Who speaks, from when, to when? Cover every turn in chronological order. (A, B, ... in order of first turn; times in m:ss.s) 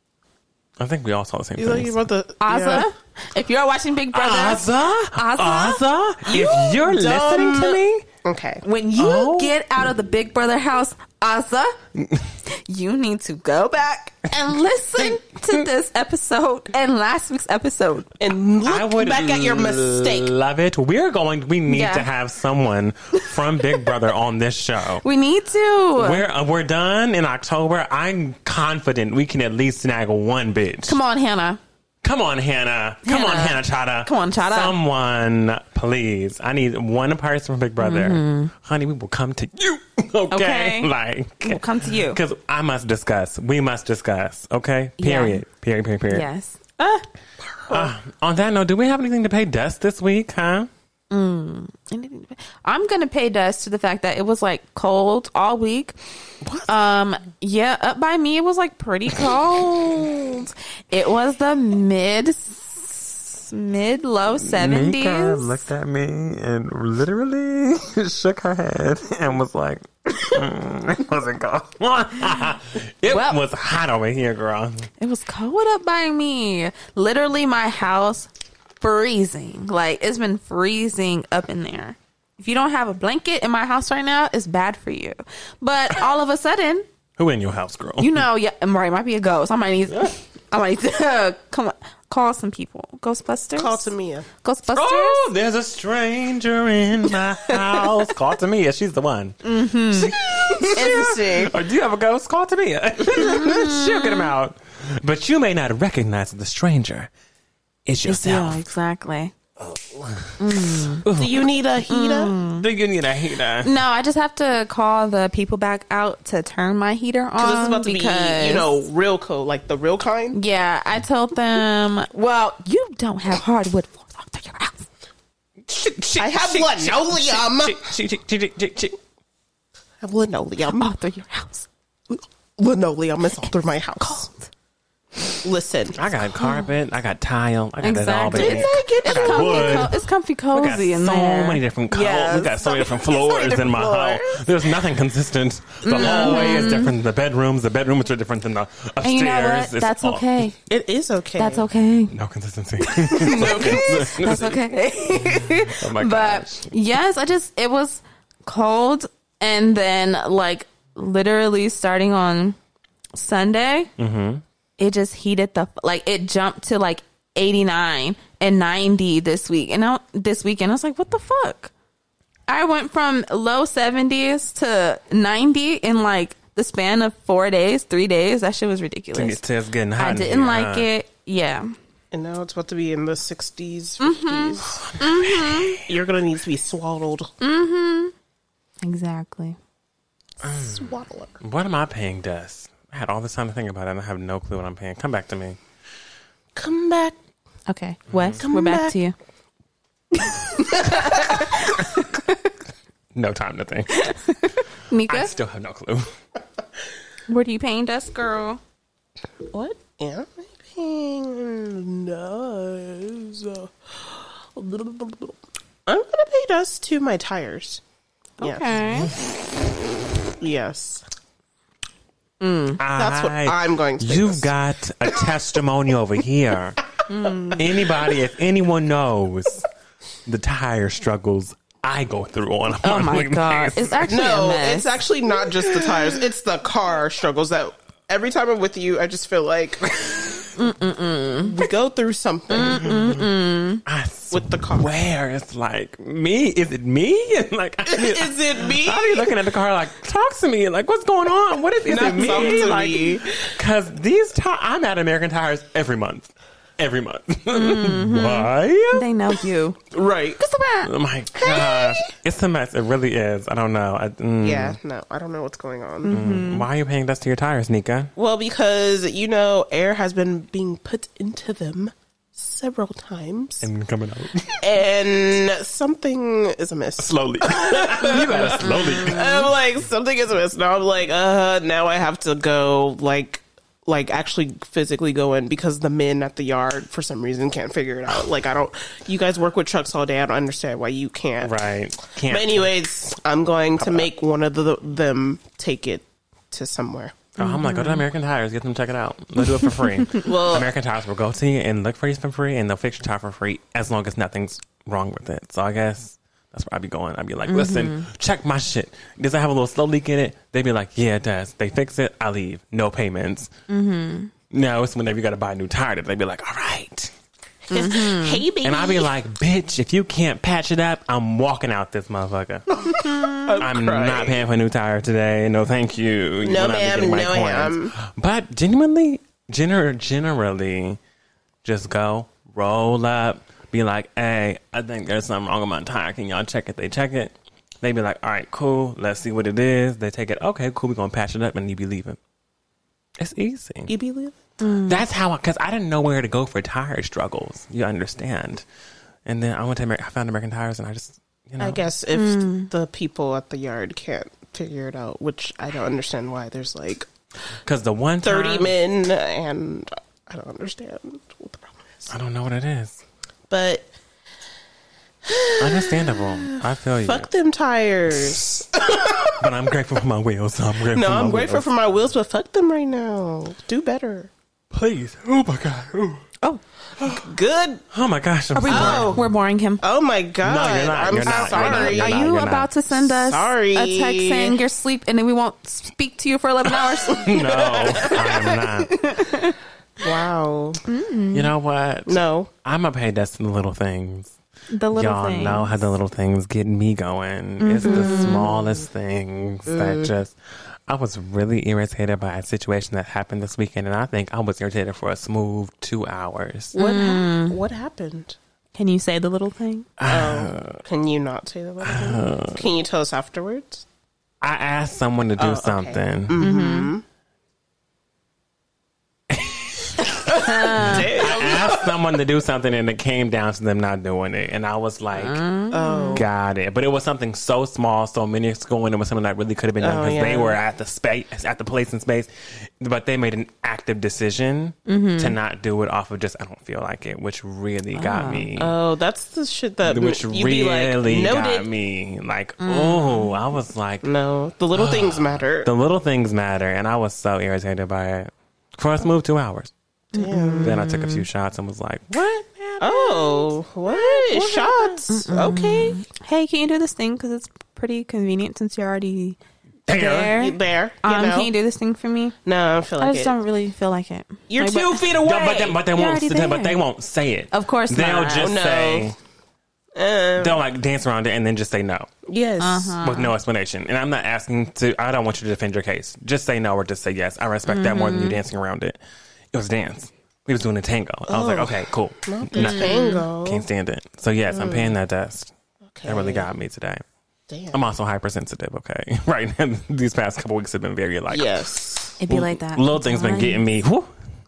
0:00.8-0:02.0 A
0:01.6-0:02.9 B
0:02.4-0:05.8 C
0:04.1-0:08.0 A
0:06.2-0:08.6 B
0:08.6-0:11.8 C
0:09.0-0:09.6 A
0:12.4-0:18.1 C
0:15.0-0:15.7 A
0:18.2-0:20.3 B
0:18.6-0:25.0 A
0:21.7-0:22.1 C
0:25.0-0:26.2 C
0:26.0-0:31.0 A
0:30.9-0:31.6 C
0:32.0-0:46.3 A
0:33.0-0:34.8 C
0:37.8-0:38.5 C
0:40.3-0:40.9 C
0:41.4-0:42.2 C
0:45.0-0:45.4 C
0:46.1-0:47.1 C
0:47.7-0:50.7 A
0:51.1-0:56.0 C
0:56.4-0:56.7 A
0:56.7-1:05.6 C
1:04.4-1:14.9 A
1:13.1-1:13.4 C
1:15.0-1:18.3 C
1:18.8-1:26.9 C
1:27.2-1:28.2 A
1:28.0-1:35.3 C
1:33.6-1:34.3 B
1:34.7-1:47.1 A
1:39.4-1:41.6 C
1:43.1-1:44.3 C
1:47.9-1:48.6 A
1:48.1-1:49.3 C
1:49.6-1:50.4 A
1:50.4-1:51.0 C
1:51.0-1:51.5 A
1:51.1-1:52.3 B
1:51.9-1:52.6 C
1:52.6-1:53.7 A
1:53.6-1:58.8 C
1:57.4-2:00.4 B
2:00.3-2:04.9 C
2:05.7-2:09.0 A
2:06.2-2:07.9 B
2:10.0-2:10.9 B
2:10.7-2:11.7 C
2:12.1-2:14.3 B
2:14.0-2:14.5 C
2:15.3-2:16.0 B
2:15.9-2:20.0 A
2:17.8-2:24.5 C
2:18.3-2:19.9 B
2:20.5-2:30.3 A
2:25.8-2:26.9 C
2:26.0-2:26.6 B
2:29.0-2:30.6 C
2:30.7-2:31.7 B
2:31.4-2:32.1 C
2:32.1-2:34.6 A
2:32.9-2:42.6 C
2:33.1-2:34.6 B
2:35.1-2:36.7 A
2:43.2-2:43.9 C
2:44.0-2:44.4 A
2:44.8-2:51.7 C
2:52.5-2:59.4 C
2:59.1-3:00.9 A
3:00.0-3:01.7 C
3:02.1-3:04.8 B
3:04.0-3:05.8 C
3:04.7-3:05.9 A
3:05.9-3:07.3 B
3:07.4-3:08.1 C
3:08.8-3:09.6 C
3:10.4-3:15.6 A
3:10.4-3:11.4 B
3:16.6-3:17.2 B
3:17.7-3:19.2 C
3:18.1-3:18.4 A
3:18.4-3:19.0 B
3:20.2-3:22.5 C
3:23.1-3:24.2 A
3:23.9-3:25.3 C
3:25.1-3:26.2 A
3:27.3-3:28.6 C
3:29.5-3:37.8 B
3:38.4-3:39.1 C
3:38.4-3:38.8 B
3:40.3-3:41.0 B
3:42.4-3:42.8 C
3:42.8-3:46.8 A
3:42.9-3:44.5 B
3:47.1-3:47.6 C
3:47.6-3:49.7 A
3:50.3-3:54.1 A
3:52.8-3:55.0 C
3:54.1-4:00.2 B
3:55.7-3:56.1 A
4:00.6-4:01.5 C
4:01.4-4:03.2 B
4:02.5-4:03.8 C
4:02.6-4:03.2 A
4:03.9-4:19.0 A
4:04.3-4:04.9 B
4:07.9-4:09.4 B
4:11.9-4:13.6 B
4:12.1-4:12.9 C
4:17.5-4:19.8 C
4:19.9-4:20.4 B
4:20.4-4:20.9 C
4:20.8-4:24.8 A
4:21.4-4:21.8 C
4:24.4-4:26.2 B
4:26.0-4:26.7 C
4:26.1-4:28.1 A
4:28.2-4:33.7 B
4:33.6-4:34.6 A
4:34.6-4:57.3 B
4:37.0-4:39.5 A
4:38.3-4:39.4 C
4:51.4-4:52.7 A
4:53.8-4:54.1 A
4:57.4-5:13.5 A
4:57.4-4:58.0 C
4:59.4-5:00.2 C
5:00.2-5:00.7 B
5:07.5-5:08.1 C
5:13.7-5:14.3 C
5:14.5-5:17.1 A
5:17.7-5:19.1 B
5:17.7-5:18.4 C
5:18.6-5:22.7 A
5:22.9-5:23.6 C
5:22.9-5:24.4 B
5:23.6-5:31.0 A
5:26.4-5:27.9 B
5:31.6-5:42.2 A
5:43.2-5:43.9 A
5:43.9-5:44.4 B
5:44.6-5:45.0 C
5:44.9-5:48.6 A
5:49.3-5:51.8 A
5:51.6-5:57.1 B
5:52.1-5:52.7 C
5:57.6-5:58.7 A
5:58.2-6:02.1 B
6:02.1-6:03.0 A
6:03.5-6:03.9 B
6:05.2-6:09.5 B
6:05.6-6:07.3 A
6:08.1-6:08.6 A
6:09.2-6:11.7 A
6:10.9-6:14.3 B
6:14.7-6:16.3 A
6:17.0-6:17.2 A
6:17.0-6:17.8 B
6:17.9-6:19.2 A
6:18.6-6:19.8 C
6:18.7-6:19.2 B
6:19.8-6:22.3 B
6:20.4-6:22.7 A
6:21.2-6:29.6 C
6:23.1-6:24.6 B
6:26.9-6:29.0 A
6:27.3-6:28.5 B
6:30.0-6:30.8 B
6:30.9-6:31.5 C
6:31.3-6:34.4 A
6:32.1-6:32.5 B
6:34.7-6:35.8 C
6:34.9-6:46.8 A
6:37.6-6:38.5 C
6:37.8-6:38.4 B
6:39.7-6:40.1 B
6:46.7-6:48.4 B
6:46.8-6:47.6 C
6:48.8-6:49.9 C
6:50.0-6:50.8 A
6:50.0-6:53.8 B
6:51.8-6:52.6 A
6:54.4-6:56.4 A
6:55.4-6:57.0 B
6:56.4-6:56.9 C
6:59.3-7:00.1 A
7:00.3-7:01.1 C
7:00.4-7:01.9 B
7:00.8-7:05.4 A
7:05.2-7:06.2 C
7:05.7-7:06.3 B
7:06.1-7:18.8 A
7:09.8-7:10.6 B
7:14.9-7:15.4 C
7:17.9-7:18.4 C
7:18.6-7:21.7 B
7:19.8-7:24.1 A
7:22.6-7:23.3 C
7:24.0-7:25.7 B
7:24.7-7:29.7 A
7:30.1-7:31.2 C
7:30.2-7:30.8 B
7:30.6-7:35.0 A
7:32.8-7:36.0 B
7:35.1-7:39.4 C
7:39.9-7:40.4 A
7:39.9-7:42.4 C
7:40.3-7:41.5 B
7:42.4-7:43.3 B
7:43.0-7:45.0 C
7:44.5-7:45.8 B
7:45.2-7:49.2 A
7:45.9-7:46.8 C
7:47.5-7:48.5 C
7:48.4-7:49.1 B
7:50.0-7:50.6 B
7:50.4-7:52.1 A
7:52.3-7:53.0 B
7:52.6-7:53.3 C
7:53.0-7:59.0 A
7:57.7-7:58.4 C
7:59.5-8:07.0 A
8:01.3-8:03.7 B
8:02.6-8:03.2 C
8:04.5-8:05.0 B
8:05.9-8:06.5 B
8:07.5-8:07.8 B
8:07.7-8:11.6 A
8:11.3-8:12.2 B
8:12.2-8:13.6 C
8:12.3-8:14.1 A